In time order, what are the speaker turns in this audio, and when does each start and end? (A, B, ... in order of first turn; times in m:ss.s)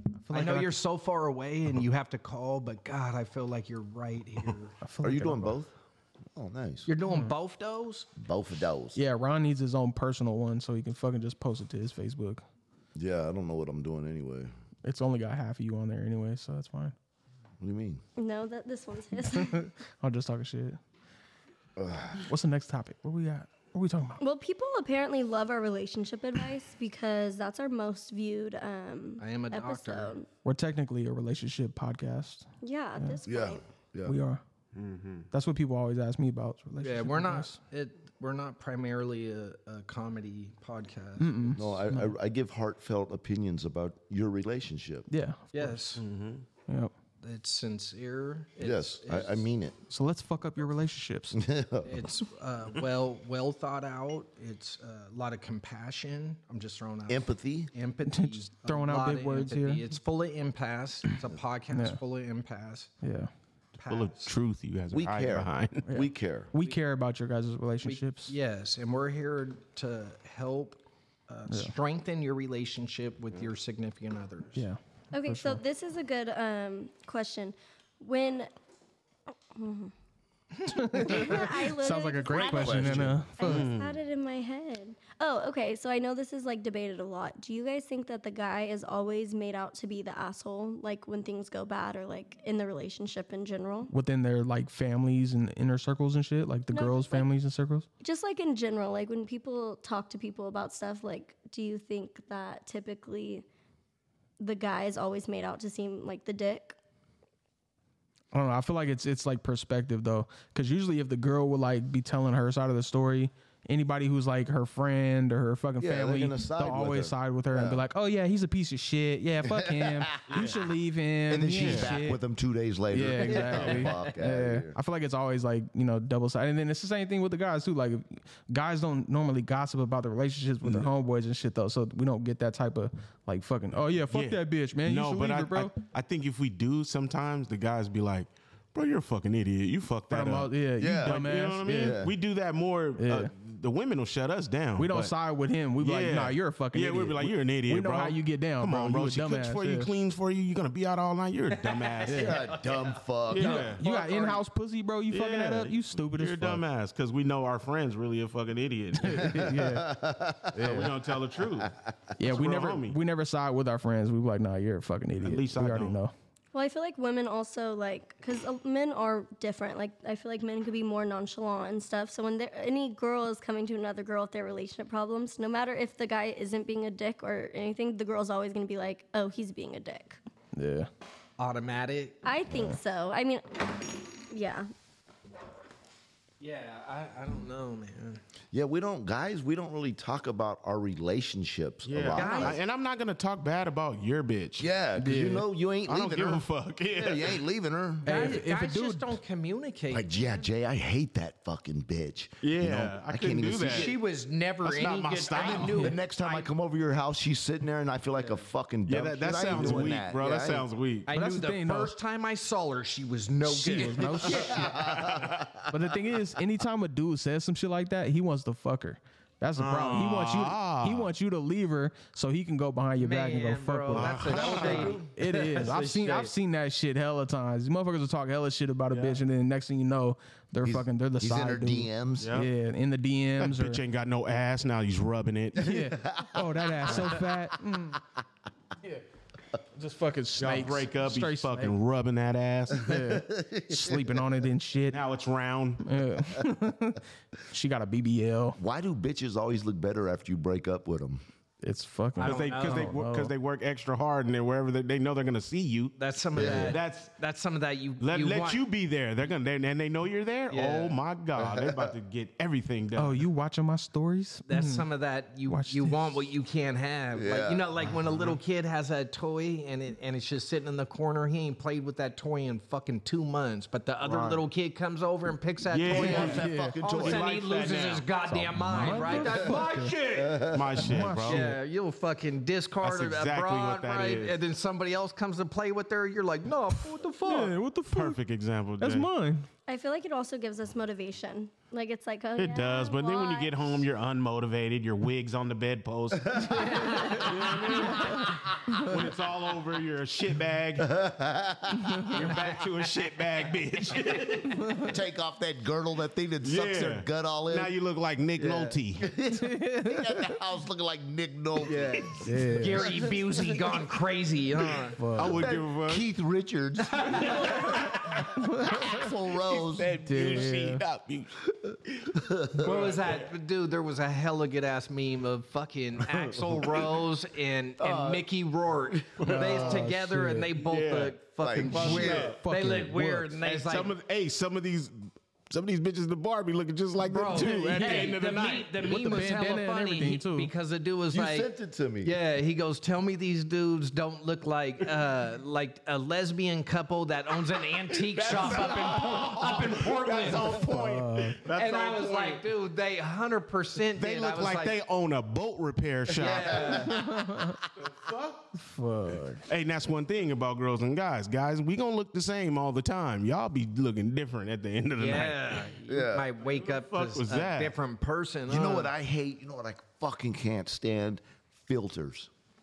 0:00.3-0:00.7 A
0:00.3-0:04.8 B
0:04.8-0:05.6 A
0:05.0-0:05.7 C
0:06.4-0:06.9 C
0:06.9-0:08.1 B
0:07.1-0:07.3 A
0:08.2-0:09.0 C
0:09.0-0:12.4 A
0:13.0-0:14.5 C
0:14.8-0:17.0 A
0:17.6-0:18.0 C
0:18.2-0:19.7 D
0:19.3-0:20.8 A
0:21.8-0:22.3 C
0:22.2-0:24.2 A
0:24.2-0:30.3 D
0:29.2-0:30.1 B
0:30.4-0:33.2 A
0:32.6-0:33.6 D
0:33.2-0:34.2 C
0:34.1-0:34.4 A
0:34.8-0:35.3 E
0:35.3-0:37.6 A
0:36.8-0:41.8 B
0:41.2-0:42.1 A
0:41.6-0:45.1 C
0:45.1-0:45.8 A
0:45.5-0:46.0 B
0:46.0-0:46.4 E
0:46.7-0:46.9 A
0:47.2-0:49.4 B
0:48.6-0:49.8 C
0:49.9-0:51.4 A
0:51.3-0:52.1 C
0:51.8-1:02.9 B
0:57.1-0:57.7 C
0:58.1-0:59.8 A
1:01.7-1:02.0 A
1:03.0-1:03.3 A
1:03.8-1:04.3 B
1:03.9-1:05.9 E
1:04.9-1:06.5 C
1:05.9-1:08.4 A
1:07.8-1:14.6 B
1:11.5-1:11.7 A
1:14.6-1:15.6 A
1:15.1-1:18.5 D
1:19.5-1:19.9 D
1:20.7-1:23.7 A
1:20.9-1:33.9 D
1:22.3-1:23.2 C
1:23.4-1:24.0 E
1:33.9-1:37.9 A
1:36.7-1:37.3 D
1:38.0-1:43.4 D
1:44.4-1:46.8 D
1:48.3-2:02.2 A
1:55.8-1:57.8 C
1:59.4-2:00.6 C
2:00.3-2:00.6 E
2:01.3-2:04.8 C
2:01.6-2:02.0 E
2:02.9-2:15.7 A
2:14.1-2:25.1 E
2:20.1-2:22.0 A
2:20.8-2:22.1 C
2:23.0-2:23.3 A
2:24.8-2:29.9 A
2:25.8-2:32.4 E
2:31.5-2:34.4 B
2:32.1-2:32.3 A
2:32.1-2:33.7 C
2:33.3-2:33.8 E
2:33.4-2:36.6 A
2:35.1-2:39.5 E
2:39.0-2:40.0 A
2:39.2-2:40.9 C
2:40.5-2:40.9 A
2:40.6-2:43.0 E
2:42.2-2:46.1 A
2:45.2-2:46.0 E
2:46.5-3:00.2 D
3:00.6-3:00.9 A
3:01.4-3:02.2 B
3:02.2-3:04.7 D
3:02.5-3:02.8 A
3:06.4-3:08.2 B
3:08.5-3:12.6 C
3:11.9-3:14.7 E
3:12.1-3:12.6 B
3:14.6-3:18.4 C
3:15.0-3:15.4 A
3:15.9-3:17.4 E
3:18.0-3:19.2 A
3:18.1-3:20.4 B
3:19.9-3:24.0 C
3:22.4-3:23.9 E
3:23.7-3:26.5 B
3:24.6-3:25.9 E
3:25.3-3:30.7 C
3:28.2-3:28.5 B
3:28.9-3:31.1 E
3:29.6-3:29.9 A
3:31.1-3:35.3 B
3:31.1-3:32.0 A
3:33.4-3:34.7 A
3:33.8-3:35.7 C
3:35.0-3:35.3 E
3:35.7-3:53.8 A
3:39.6-3:41.1 E
3:43.0-3:46.3 B
3:43.9-3:45.0 E
3:44.2-3:45.1 C
3:50.6-3:52.3 C
3:52.2-3:52.5 E
3:53.4-3:55.7 E
3:55.6-3:58.0 A
3:55.6-3:57.3 C
3:59.8-4:01.8 A
4:00.4-4:03.0 E
4:02.8-4:05.0 A
4:02.9-4:04.2 C
4:04.9-4:05.9 E
4:05.8-4:08.6 A
4:08.6-4:11.2 C
4:11.6-4:13.3 A
4:12.2-4:13.0 B
4:12.2-4:17.2 E
4:16.0-4:18.6 B
4:16.4-4:16.8 C
4:18.0-4:23.3 E
4:20.5-4:21.0 B
4:21.4-4:21.9 C
4:23.0-4:24.9 A
4:24.5-4:40.5 B
4:25.5-4:26.3 A
4:27.1-4:27.7 C
4:34.0-4:34.4 A
4:35.7-4:38.1 E
4:35.9-4:37.3 C
4:36.1-4:36.8 A
4:38.3-4:40.0 A
4:38.7-4:41.5 E
4:40.1-4:40.8 C
4:40.8-4:41.6 A
4:41.3-4:47.6 B
4:42.8-4:44.4 E
4:47.2-4:48.2 A
4:47.9-4:49.1 E
4:48.8-4:49.5 A
4:49.7-4:53.8 D
4:52.4-5:01.0 E
4:56.3-4:57.2 C
4:56.6-4:57.3 B
4:57.9-4:58.9 A
5:00.8-5:02.2 C
5:02.1-5:04.9 E
5:02.1-5:03.0 B
5:04.8-5:07.7 C
5:06.4-5:09.1 E
5:08.4-5:13.6 C
5:09.4-5:10.3 A
5:11.6-5:15.0 B
5:12.2-5:12.9 A
5:15.0-5:15.4 A
5:15.2-5:16.1 E
5:15.2-5:19.9 C
5:16.9-5:17.8 B
5:18.4-5:18.9 A
5:19.5-5:23.3 E
5:20.0-5:20.8 A
5:21.6-5:22.9 C
5:22.6-5:33.9 B
5:27.8-5:28.3 C
5:28.9-5:29.2 C
5:29.2-5:29.9 E
5:29.2-5:30.5 A
5:30.6-5:32.4 E
5:31.4-5:32.4 C
5:31.7-5:33.4 A
5:33.4-5:39.4 E
5:37.0-5:41.5 B
5:37.5-5:38.2 A
5:38.8-5:40.5 A
5:41.1-5:42.1 C
5:42.0-5:50.8 B
5:47.9-5:52.5 E
5:50.7-5:51.4 A
5:51.5-5:54.8 B
5:54.0-5:56.9 E
5:56.1-5:57.5 C
5:56.1-5:57.1 B
5:56.9-5:57.6 A
5:57.8-5:58.5 E
5:58.6-5:59.4 A
5:59.2-6:05.7 E
6:05.0-6:08.9 B
6:05.9-6:06.3 C
6:06.4-6:07.7 E
6:08.5-6:12.3 C